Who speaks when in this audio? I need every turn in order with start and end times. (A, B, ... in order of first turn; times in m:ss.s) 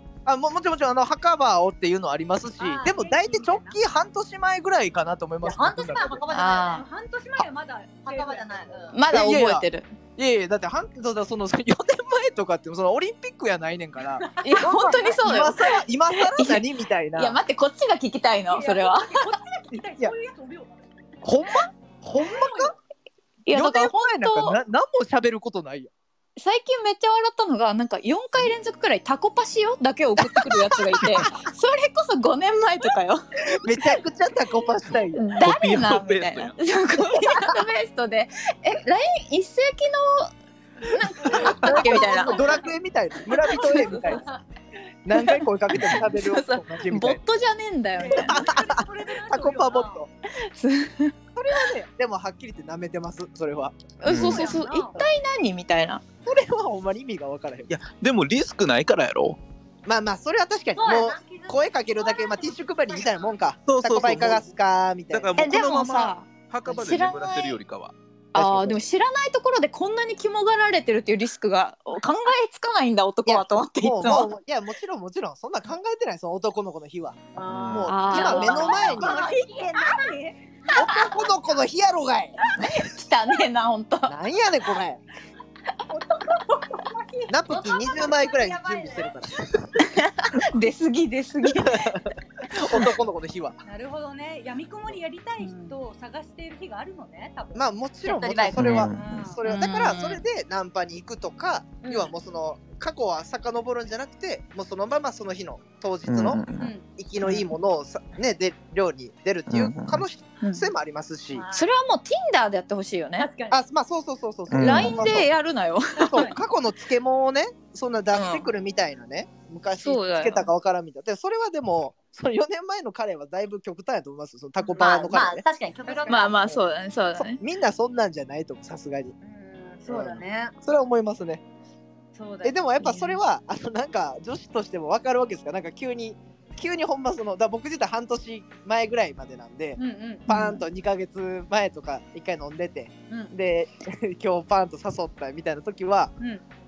0:00.3-0:06.2 A
0:02.6-0:03.8 B
0:05.4-0:06.8 C
0:06.3-0:06.8 D
0:06.4-0:08.9 B
0:08.0-0:09.0 C
0:08.9-0:09.9 D
0:09.1-0:09.7 A
0:10.2-0:17.4 A
0:14.2-0:15.5 B
0:14.4-0:19.4 D
0:18.5-0:20.9 B
0:21.2-0:22.7 A
0:22.2-0:22.8 B
0:23.4-0:24.6 D
0:23.5-0:25.9 A
0:26.4-0:33.2 D
0:30.2-0:31.3 A
0:33.5-0:35.3 A
0:35.1-0:42.6 D
0:35.4-0:36.6 E
0:41.2-0:44.2 A
0:41.3-0:42.7 B
0:43.4-0:44.2 D
0:44.0-0:44.4 B
0:45.0-0:47.2 A
0:45.1-0:48.5 D
0:48.0-0:50.0 B
0:48.2-0:50.1 A
0:50.3-0:51.2 D
0:51.4-0:53.8 A
0:54.0-0:56.0 D
0:54.0-0:54.5 E
0:54.1-0:55.0 B
0:56.2-0:57.7 A
0:57.7-0:59.4 E
0:59.8-1:05.6 A
1:00.8-1:03.4 C
1:03.7-1:04.5 E
1:05.1-1:07.9 E
1:05.4-1:07.6 D
1:08.3-1:14.3 D
1:08.4-1:08.8 A
1:13.2-1:19.3 A
1:17.4-1:20.9 B
1:17.4-1:17.9 E
1:17.9-1:18.9 D
1:18.3-1:20.1 C
1:20.7-1:21.2 C
1:20.8-1:22.8 A
1:22.6-1:24.2 D
1:24.1-1:25.0 A
1:25.9-1:27.6 B
1:27.3-1:29.8 A
1:27.5-1:29.5 C
1:29.8-1:32.1 D
1:31.4-1:33.6 A
1:33.6-1:37.7 B
1:35.4-1:35.8 D
1:37.6-1:46.4 A
1:38.0-1:38.9 C
1:38.5-1:39.2 E
1:38.9-1:39.4 B
1:39.4-1:40.2 D
1:41.8-1:42.1 B
1:46.1-1:46.7 E
1:46.6-1:46.8 B
1:47.0-1:51.5 A
1:49.5-1:50.0 E
1:50.4-1:50.7 D
1:51.3-1:51.7 B
1:51.5-1:53.3 D
1:53.2-1:53.6 B
1:53.5-1:55.3 A
1:54.5-1:55.1 E
1:54.6-1:56.3 D
1:56.0-1:56.4 B
1:56.1-2:05.4 A
1:58.1-1:58.5 D
1:59.8-2:00.5 D
2:04.8-2:06.6 C
2:05.8-2:06.4 B
2:06.1-2:07.4 D
2:07.2-2:09.1 A
2:09.2-2:10.5 B
2:09.9-2:11.4 A
2:12.2-2:13.1 B
2:12.4-2:26.1 A
2:19.8-2:20.3 B
2:20.3-2:20.6 D
2:26.2-2:26.4 B